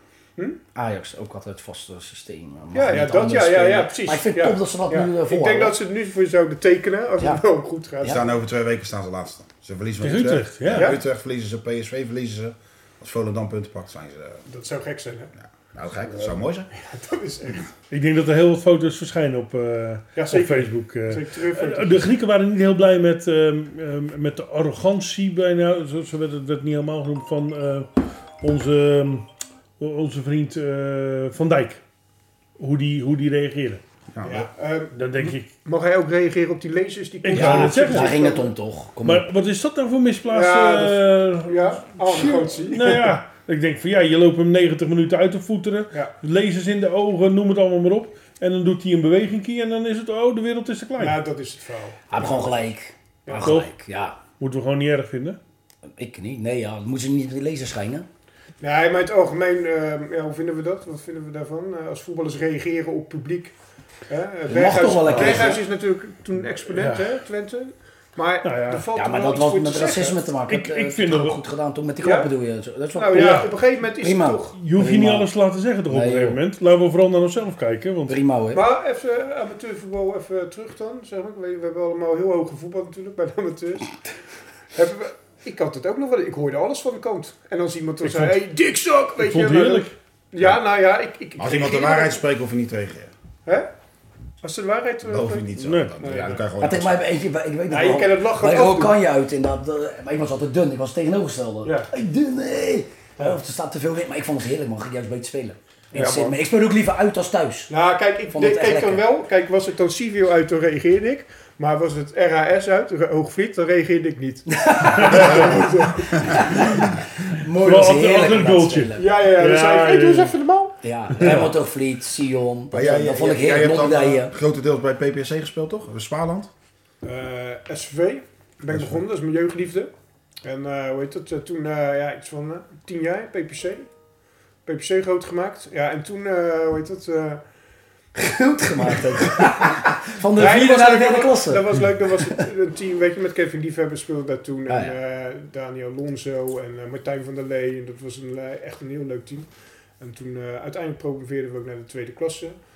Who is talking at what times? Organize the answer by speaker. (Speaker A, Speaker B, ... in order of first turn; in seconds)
Speaker A: 0.7-5.8, 37.3-39.2, 52.1-54.2, 56.0-58.1, 64.5-65.6, 68.9-75.3, 75.9-76.4, 78.1-78.6, 96.6-107.7, 108.3-109.0, 114.5-115.7, 116.2-119.1, 120.8-124.3, 138.1-142.4, 144.7-144.9
Speaker B: 2.7-8.3, 10.7-11.0, 14.5-15.3, 16.7-17.7, 20.1-22.1, 34.2-38.5, 40.3-43.2, 51.0-52.5, 53.2-53.5, 58.6-63.5, 64.1-70.3, 72.0-72.3, 72.9-74.5, 78.5-84.0, 84.7-92.2, 94.4-95.5, 96.0-96.4, 97.7-99.0, 101.6-101.9, 107.7-116.7, 119.0-120.8, 127.0-129.9, 130.4-133.9, 134.7-137.4, 140.3-149.5, 150.0-152.5
Speaker C: 8.0-14.4, 15.4-16.7, 34.1-34.5, 91.4-93.1, 95.0-97.0, 122.7-126.5, 128.7-129.0
Speaker D: 10.0-10.9, 17.9-29.2, 29.8-31.8, 32.6-33.8, 34.9-35.5, 37.2-38.2, 39.0-51.2, 53.4-53.7, 54.4-55.4, 65.1-65.5, 66.7-67.1, 68.4-68.8, 70.5-71.4, 73.1-73.5, 74.5-78.2, 88.0-88.4, 89.2-89.9, 95.5-95.9, 105.9-106.3, 115.0-115.5, 116.6-116.8, 117.5-120.3